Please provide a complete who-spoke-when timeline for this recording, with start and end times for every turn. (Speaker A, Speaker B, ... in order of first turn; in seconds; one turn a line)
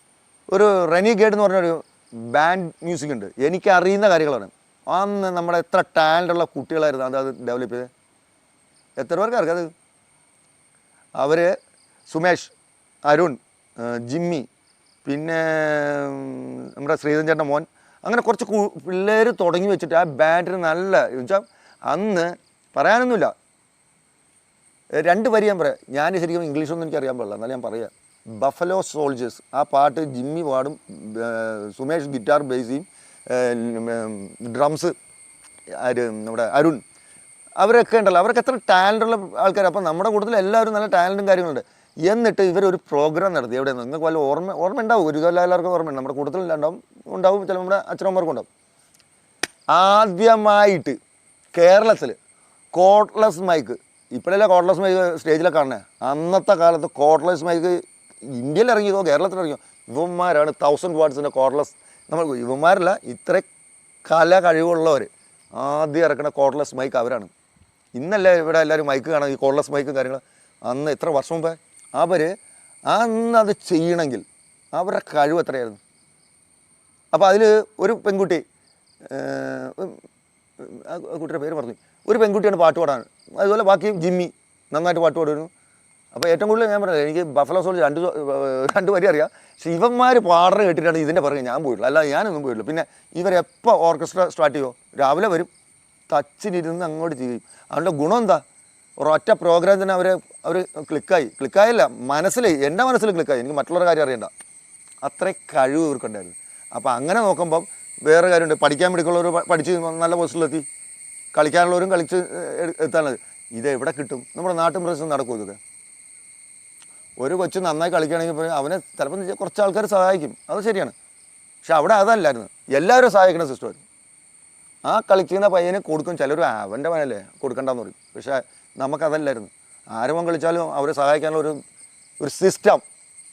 Speaker A: 0.5-7.9
Speaker A: 9.0-9.7
Speaker A: 11.2-11.5
Speaker A: 12.1-12.5
Speaker A: 13.1-14.4
Speaker A: 15.0-23.3
Speaker A: 24.9-34.9
Speaker A: 35.7-36.8
Speaker A: 37.6-48.5
Speaker A: 49.7-51.0
Speaker A: 51.5-52.2
Speaker A: 52.7-63.5
Speaker A: 64.0-67.3
Speaker A: 67.9-72.3
Speaker A: 72.9-75.8
Speaker A: 77.1-78.4
Speaker A: 79.0-80.0
Speaker A: 80.6-85.5
Speaker A: 86.1-95.5
Speaker A: 96.1-98.4
Speaker A: 99.0-104.3
Speaker A: 105.0-110.6
Speaker A: 111.3-115.6
Speaker A: 117.2-120.9
Speaker A: 121.6-123.8
Speaker A: 124.8-131.6
Speaker A: 132.2-132.8